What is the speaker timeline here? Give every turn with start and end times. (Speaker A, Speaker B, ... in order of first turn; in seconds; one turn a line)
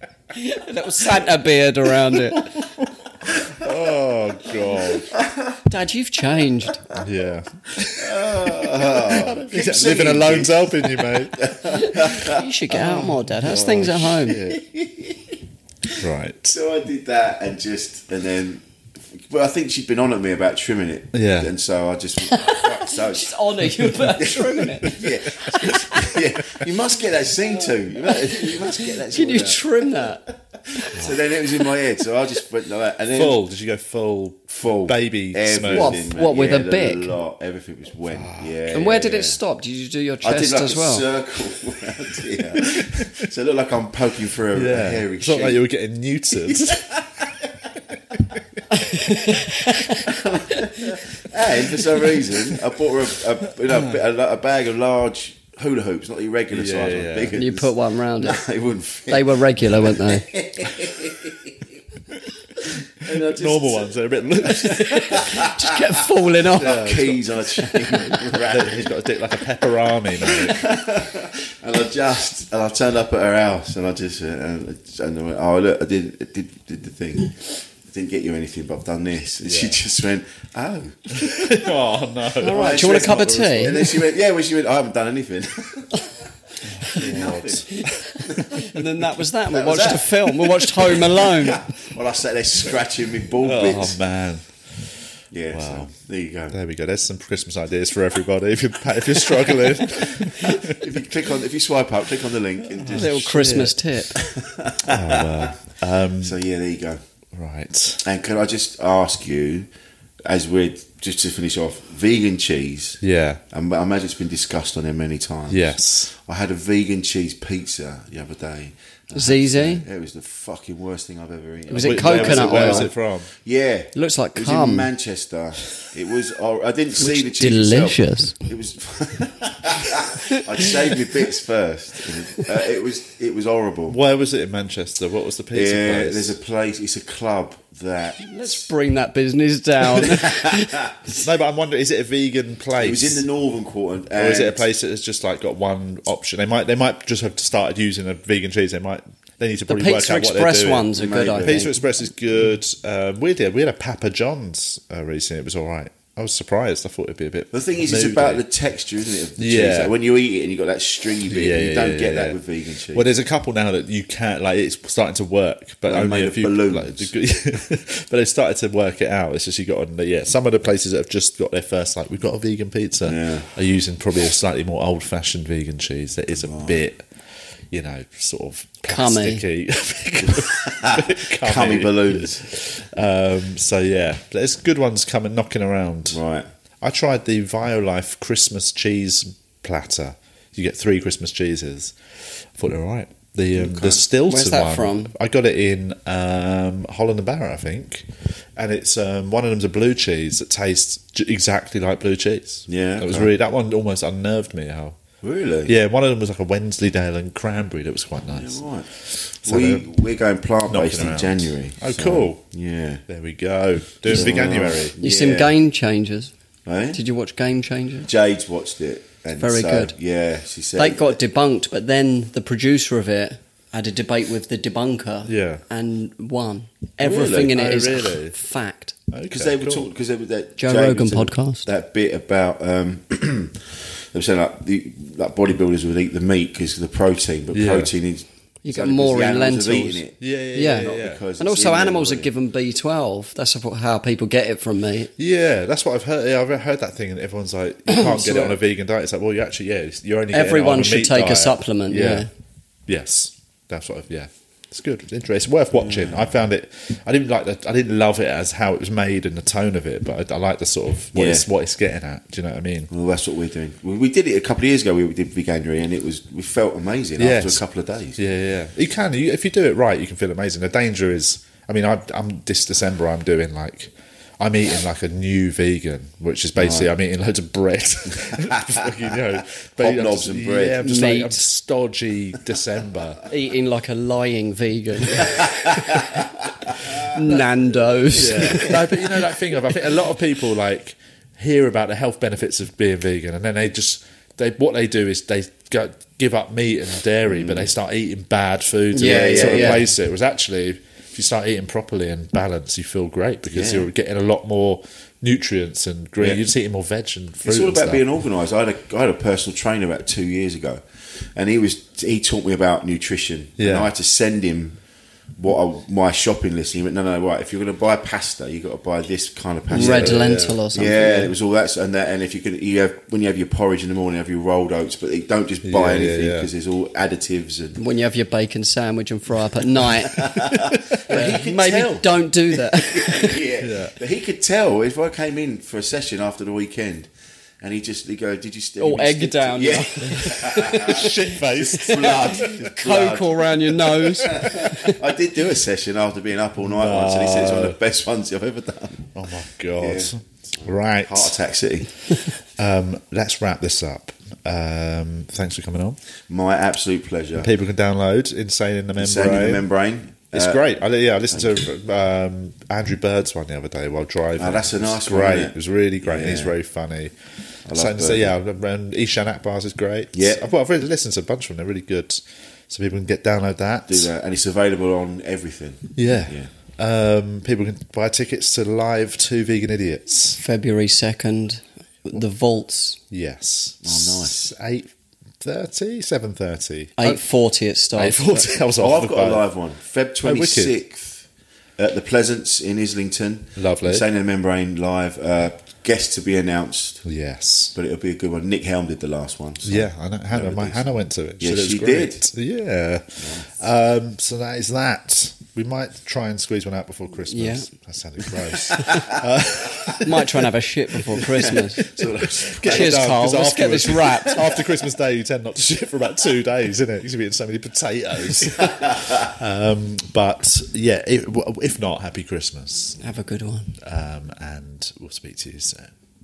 Speaker A: 0.3-2.5
Speaker B: 2.3-5.1
Speaker C: 4.8-5.6
Speaker A: 5.7-6.8
Speaker B: 7.0-12.0
Speaker C: 8.0-12.4
Speaker A: 11.8-14.4
Speaker B: 12.7-14.6
Speaker C: 14.3-15.3
Speaker B: 16.0-16.6
Speaker C: 16.5-33.4
Speaker B: 21.1-21.5
Speaker A: 22.3-26.1
Speaker B: 24.9-25.8
Speaker A: 29.1-30.3
Speaker B: 33.1-36.0
Speaker C: 34.5-39.4
Speaker A: 35.7-37.2
Speaker B: 38.1-38.6
Speaker A: 38.7-41.1
Speaker C: 40.2-45.6
Speaker B: 42.5-43.0
Speaker B: 44.5-46.9
Speaker C: 46.5-47.5
Speaker B: 48.1-48.4
Speaker A: 48.7-50.0
Speaker C: 50.1-61.6
Speaker B: 56.5-57.4
Speaker A: 57.3-58.4
Speaker A: 59.1-60.3
Speaker C: 63.1-63.8
Speaker B: 63.1-65.2
Speaker A: 63.1-63.5
Speaker A: 64.4-67.0
Speaker C: 65.1-65.5
Speaker C: 66.5-69.0
Speaker B: 66.6-67.2
Speaker B: 67.9-70.6
Speaker C: 70.2-81.7
Speaker B: 79.4-79.8
Speaker B: 81.1-84.0
Speaker A: 82.4-83.9
Speaker C: 82.4-88.7
Speaker B: 86.7-88.2
Speaker A: 88.5-91.6
Speaker C: 89.5-94.0
Speaker B: 93.4-95.0
Speaker C: 95.3-96.6
Speaker B: 95.5-95.9
Speaker B: 96.5-100.8
Speaker C: 99.8-103.4
Speaker B: 102.8-103.8
Speaker A: 102.9-104.2
Speaker C: 104.2-105.6
Speaker B: 104.8-106.4
Speaker C: 106.2-107.0
Speaker B: 107.3-108.0
Speaker C: 108.0-109.7
Speaker C: 110.2-134.0
Speaker B: 113.0-113.4
Speaker B: 115.5-116.1
Speaker A: 119.2-119.8
Speaker A: 121.7-122.9
Speaker B: 121.8-123.3
Speaker A: 124.0-124.9
Speaker A: 127.0-128.4
Speaker B: 133.9-136.4
Speaker C: 135.5-138.6
Speaker A: 138.2-140.9
Speaker C: 139.9-140.9
Speaker B: 141.2-143.2
Speaker C: 142.8-144.7
Speaker B: 144.2-158.4
Speaker A: 149.7-151.7
Speaker C: 150.9-151.7
Speaker C: 157.5-163.1
Speaker B: 159.4-159.9
Speaker B: 161.3-162.4
Speaker B: 162.9-177.1
Speaker C: 165.9-167.1
Speaker C: 173.0-173.5
Speaker C: 176.4-176.8
Speaker B: 177.7-186.2
Speaker A: 178.8-179.4
Speaker C: 180.2-182.5
Speaker C: 186.1-186.5
Speaker B: 186.8-192.0
Speaker B: 192.5-205.0
Speaker C: 193.6-194.0
Speaker A: 194.3-195.1
Speaker C: 202.7-203.3
Speaker C: 205.2-205.8
Speaker B: 205.7-208.6
Speaker C: 208.3-213.0
Speaker B: 209.4-209.9
Speaker B: 210.7-212.4
Speaker B: 213.1-214.9
Speaker C: 214.1-215.6
Speaker A: 215.0-216.3
Speaker C: 216.7-217.0
Speaker A: 216.9-218.1
Speaker C: 218.1-221.2
Speaker A: 219.4-219.9
Speaker A: 220.8-229.0
Speaker B: 225.2-225.6
Speaker C: 227.0-227.6
Speaker B: 227.5-228.3
Speaker B: 229.1-229.9
Speaker C: 229.3-242.3
Speaker A: 230.6-231.7
Speaker B: 237.5-237.9
Speaker A: 238.6-240.0
Speaker B: 240.2-241.2
Speaker A: 240.5-245.1
Speaker B: 245.2-252.3
Speaker A: 247.9-248.6
Speaker A: 250.3-252.3
Speaker B: 252.9-262.9
Speaker C: 255.7-256.3
Speaker C: 261.1-261.5
Speaker C: 262.9-268.2
Speaker B: 267.2-267.6
Speaker B: 268.2-283.2
Speaker C: 276.6-276.9
Speaker C: 278.3-278.9
Speaker C: 279.8-280.9
Speaker A: 280.8-281.4
Speaker A: 283.3-286.0
Speaker C: 286.7-287.1
Speaker A: 287.1-288.8
Speaker B: 288.1-308.0
Speaker C: 288.4-288.7
Speaker C: 297.3-297.7
Speaker A: 298.9-299.9
Speaker C: 299.0-299.9
Speaker C: 303.5-303.9
Speaker C: 306.2-306.4
Speaker C: 307.4-310.8
Speaker C: 311.4-314.8
Speaker B: 313.6-313.9
Speaker C: 315.4-327.8
Speaker A: 319.7-321.3
Speaker B: 319.7-320.6
Speaker B: 325.6-326.5
Speaker A: 327.8-330.4
Speaker C: 330.1-337.1
Speaker B: 331.1-331.4
Speaker A: 331.1-333.4
Speaker B: 333.6-333.9
Speaker C: 337.6-349.1
Speaker A: 338.8-344.9
Speaker B: 340.7-342.7
Speaker B: 344.2-344.9
Speaker B: 346.6-347.8
Speaker B: 349.1-351.4
Speaker C: 349.8-350.1
Speaker C: 350.6-351.9
Speaker B: 352.6-356.0
Speaker C: 356.3-357.5
Speaker B: 357.4-359.6
Speaker C: 359.0-360.6
Speaker B: 360.3-374.1
Speaker C: 361.3-361.6
Speaker C: 364.4-366.6
Speaker C: 367.7-368.4
Speaker C: 370.1-370.4
Speaker C: 373.9-376.5
Speaker B: 376.0-380.4
Speaker A: 380.4-383.0
Speaker B: 383.1-387.2
Speaker C: 383.8-384.5
Speaker A: 387.0-388.5
Speaker B: 388.0-389.4
Speaker C: 388.8-391.3
Speaker B: 390.2-390.7
Speaker C: 391.8-397.1
Speaker B: 393.6-394.1
Speaker B: 397.1-397.8
Speaker C: 397.8-402.2
Speaker B: 399.6-410.4
Speaker C: 403.2-403.5
Speaker A: 407.3-407.7
Speaker A: 408.8-409.0
Speaker C: 408.8-409.2
Speaker A: 410.0-411.9
Speaker C: 411.2-413.1
Speaker B: 412.6-423.0
Speaker A: 412.6-414.4
Speaker C: 418.6-419.2
Speaker A: 423.0-423.8
Speaker B: 423.8-425.9